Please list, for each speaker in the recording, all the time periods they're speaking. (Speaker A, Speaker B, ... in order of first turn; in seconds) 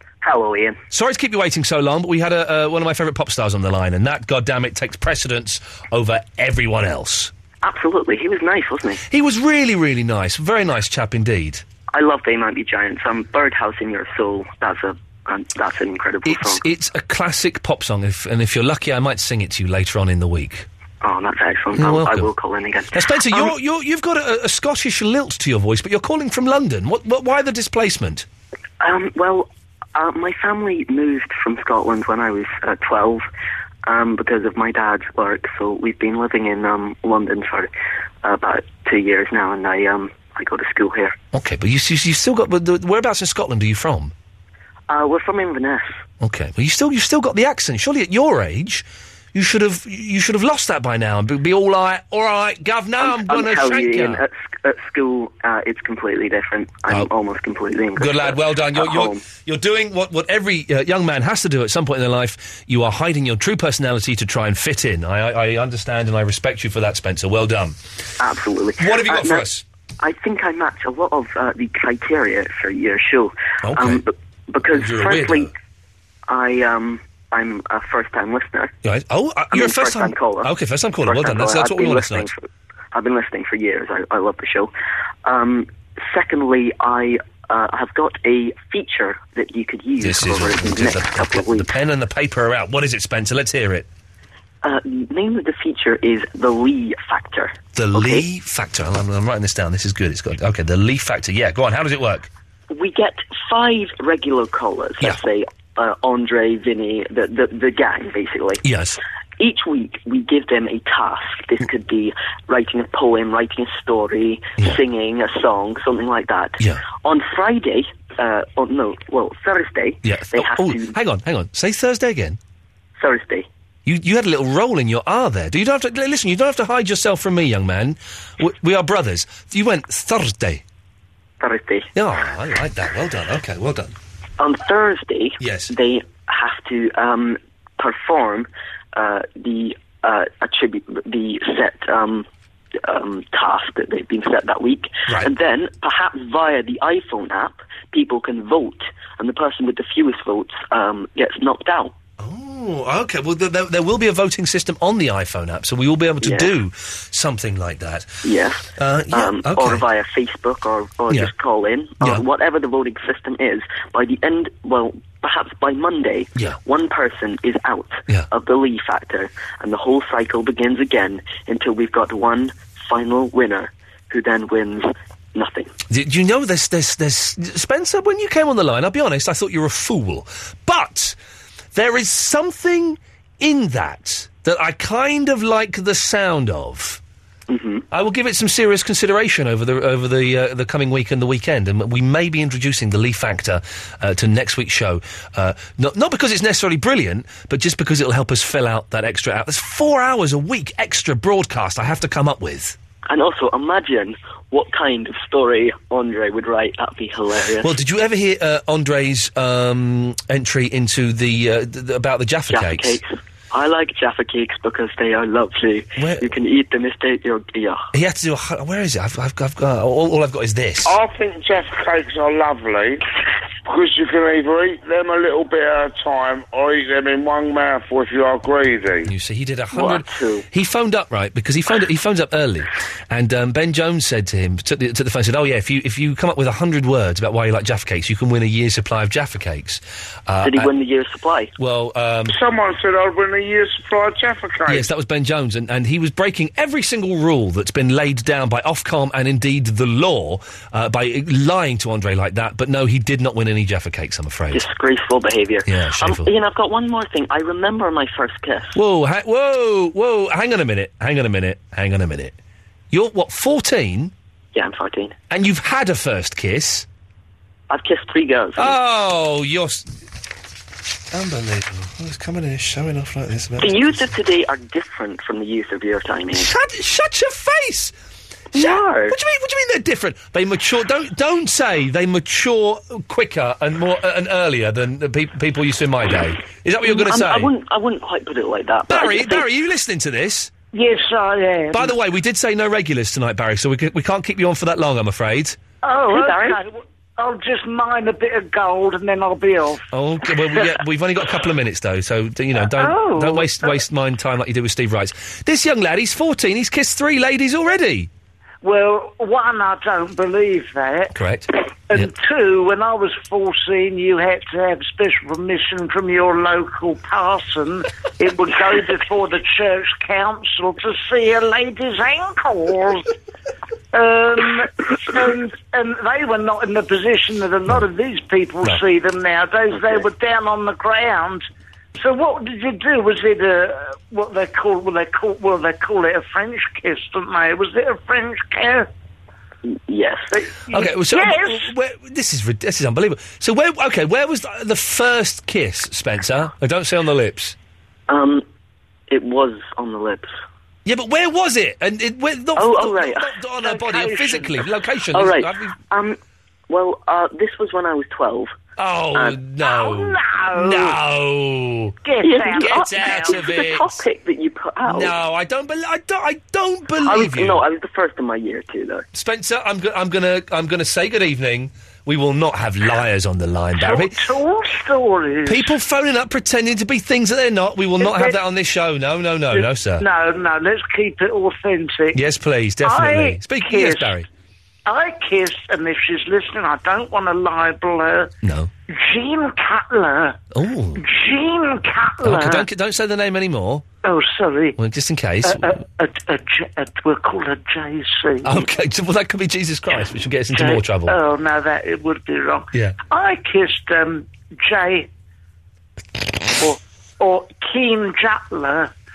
Speaker A: 0.2-0.8, 7.6-9.0, 11.9-16.6, 21.0-23.5, 28.8-33.2, 33.9-37.7, 38.2-41.2, 44.9-46.0, 53.0-59.2, 68.2-69.5, 70.0-75.5, 76.3-78.7, 79.5-80.5, 81.0-84.7, 85.2-91.7, 94.6-98.2, 102.7-108.6, 109.4-121.0, 123.0-123.5, 131.4-131.9, 134.4-142.3, 142.8-151.9, 156.2-156.5, 158.2-175.7, 187.5-187.9, 203.1-207.7, 212.5-217.9, 229.7-230.5, 240.4-241.5, 254.5-258.8, 264.5-265.2, 267.7-268.8, 273.6-276.5, 278.5-279.2, 286.8-289.4, 296.1-296.6, 339.7-340.3, 348.1-348.4, 349.1-350.3, 352.6-353.3, 355.1-356.2, 356.7-358.6, 359.1-359.4, 362.2-365.1, 367.0-369.1
Speaker B: 0.9-7.3, 9.1-11.6, 16.2-20.7, 21.8-22.3, 22.9-28.3, 41.3-44.1, 46.2-54.2, 58.0-67.8, 68.8-69.6, 73.6-74.0, 74.7-75.5, 78.8-82.3, 90.0-93.9, 97.8-102.3, 108.6-109.0, 120.0-122.4, 123.9-130.6, 131.9-133.9, 135.4-135.7, 152.2-158.2, 158.8-159.9, 175.9-181.2, 181.7-187.0, 187.9-202.8, 207.6-213.0, 216.0-216.3, 217.9-220.9, 229.1-240.7, 241.6-242.3, 244.7-254.6, 255.7-256.3, 258.8-262.4, 262.9-264.1, 265.3-266.9, 268.6-269.9, 271.1-274.0, 276.3-277.9, 278.6-287.5, 288.9-290.5, 291.7-295.6, 299.9-308.1, 311.1-312.1, 340.7-347.6, 350.9-355.8, 358.8-362.0, 362.5-364.1, 364.9-367.6, 369.1-374.2, 375.5-380.1, 382.1-384.3, 388.4-388.7, 390.5-391.0, 392.2-393.9, 394.8-395.8, 398.4-401.2, 402.7-403.0
Speaker C: 220.8-223.0, 223.7-229.1, 242.3-244.9
Speaker D: 290.7-291.9, 295.8-299.8, 302.6-303.8, 308.6-311.1, 311.9-323.1, 323.9-331.4, 332.0-338.9, 340.3-341.7, 353.6-354.6, 359.6-361.0, 362.0-363.4, 373.8-375.7, 378.0-378.4, 379.5-382.2, 382.8-384.2, 384.9-388.3, 388.9-390.4, 391.0-392.6, 394.0-394.8, 395.4-398.6, 400.5-405.1, 406.6-408.9